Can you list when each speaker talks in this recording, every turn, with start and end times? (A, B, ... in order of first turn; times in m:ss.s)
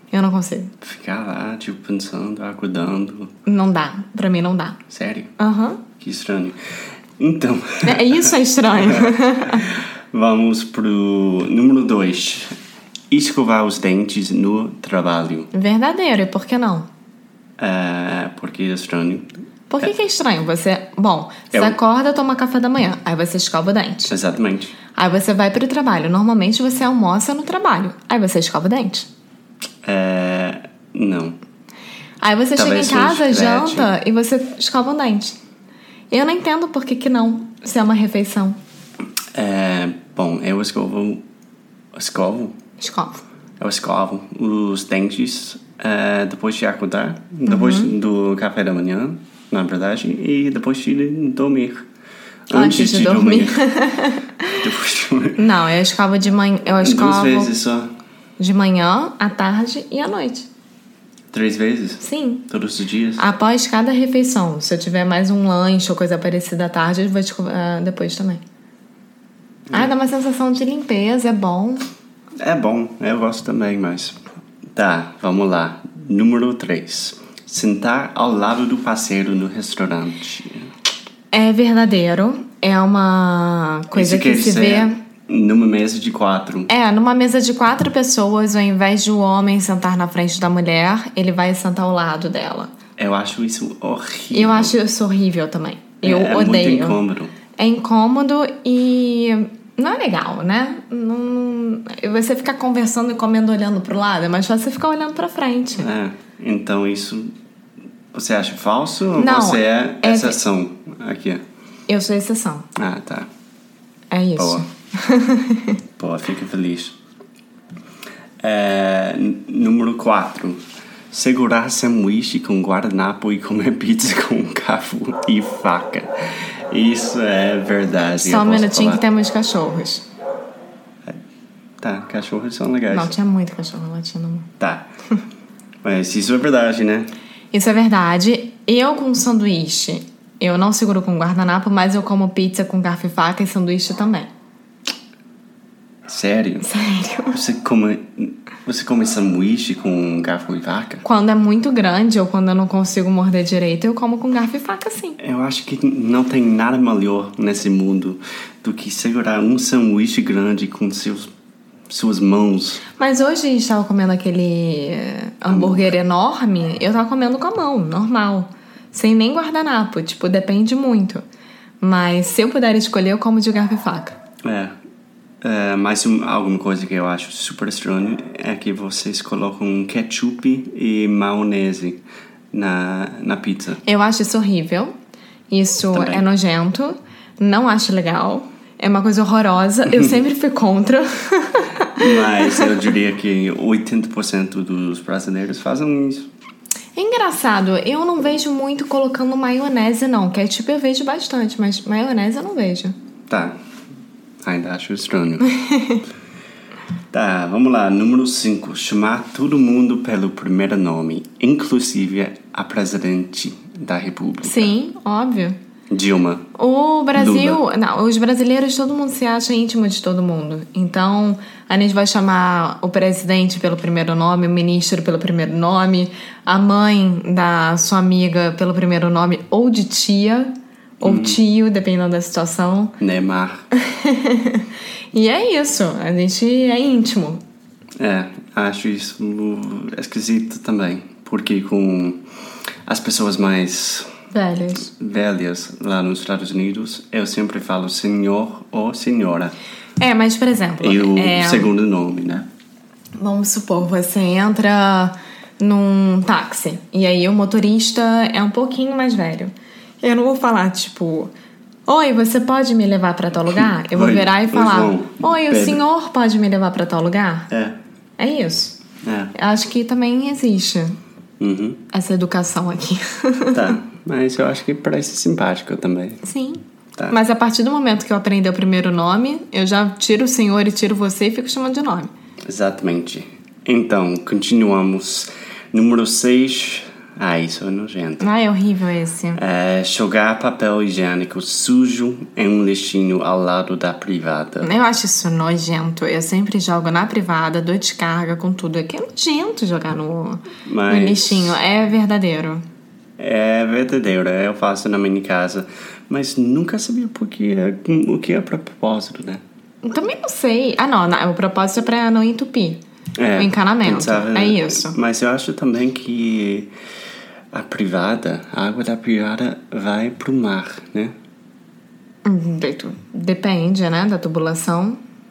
0:00.1-0:00.7 A
0:00.8-0:03.3 B
0:03.4-0:04.8 A
0:04.9-0:05.3 B
0:05.4-0:05.8 A
0:06.0-0:06.6 B
0:07.2-0:08.3 B
0:07.8-0:09.6 A
0:09.6-0:12.5 B
0:13.1-0:15.5 B
0:15.5-0:16.9 A
0:17.6-0:19.3 B
0:19.7-0:24.1 A
0:24.0-0:24.7 B
0:24.9-0:29.1 A
0:29.8-0:31.4 B
0:32.2-0:35.4 A
0:32.6-0:33.9 B
0:36.1-0:38.6 A
0:39.3-0:41.2 B
0:42.0-0:42.5 B
0:42.8-0:43.2 A
0:43.6-0:51.8 B
0:47.4-0:47.9 A
0:52.5-0:53.6 B
0:52.5-0:54.5 A
0:54.6-0:55.4 B
0:55.4-0:57.5 A
0:56.8-0:57.9 B
0:58.4-1:00.5 A
1:01.3-1:03.2 B
1:02.0-1:02.5 A
1:03.2-1:08.4 A
1:09.7-1:11.8 A
1:12.4-1:14.2 B
1:14.7-1:20.7 B
1:21.3-1:25.0 A
1:23.9-1:26.7 B
1:26.7-1:32.7 A
1:33.0-1:34.8 B
1:34.3-1:37.0 A
1:36.0-1:37.3 B
1:37.6-1:45.9 A
1:45.8-1:47.3 B
1:48.1-1:51.4 B
1:49.2-1:50.4 A
1:51.9-1:52.6 A
1:52.8-1:53.3 B
1:54.1-1:55.8 A
1:54.4-1:54.7 B
1:56.0-1:57.0 B
1:58.4-2:00.6 B
2:01.1-2:09.0 B
2:08.2-2:10.1 A
2:11.8-2:13.1 B
2:12.9-2:14.5 A
2:14.6-2:14.9 B
2:15.8-2:17.1 B
2:17.5-2:24.3 A
2:26.0-2:26.7 B
2:26.6-2:27.4 A
2:27.3-2:31.0 B
2:31.0-2:35.2 A
2:35.2-2:41.3 B
2:41.9-2:42.8 B
2:43.0-2:51.2 A
2:45.5-2:45.9 B
2:51.8-2:54.2 A
2:54.4-2:54.7 B
2:55.4-3:02.0 B
3:02.5-3:03.8 B
3:03.8-3:04.9 A
3:05.5-3:12.7 A
3:05.9-3:06.2 B
3:12.0-3:16.3 B
3:17.0-3:22.9 A
3:23.3-3:23.5 B
3:24.4-3:25.5 B
3:25.6-3:26.0 A
3:27.1-3:34.7 B
3:34.4-3:35.6 A
3:35.9-3:36.4 B
3:36.5-3:50.5 A
3:37.1-3:37.6 B
3:51.0-3:51.4 B
3:51.0-3:53.0 A
3:53.0-3:53.6 B
3:53.8-3:57.4 A
3:58.0-4:02.2 B
4:02.9-4:04.1 B
4:04.3-4:04.9 A
4:04.8-4:09.5 B
4:10.0-4:11.7 A
4:10.8-4:12.5 B
4:13.2-4:21.3 A
4:21.9-4:27.5 A
4:23.5-4:25.8 B
4:27.5-4:27.8 B
4:28.2-4:28.8 A
4:29.0-4:29.3 B
4:29.3-4:30.9 A
4:31.4-4:31.8 B
4:31.9-4:33.7 A
4:33.5-4:36.2 B
4:36.2-4:42.1 A
4:42.5-4:48.2 B
4:48.2-4:49.4 A
4:49.3-4:54.7 B
4:54.6-5:02.6 A
5:00.6-5:01.6 B
5:03.2-5:09.4 B
5:09.8-5:12.8 A
5:13.2-5:16.7 B
5:13.4-5:15.0 A
5:17.5-5:21.1 B
5:22.2-5:25.0 A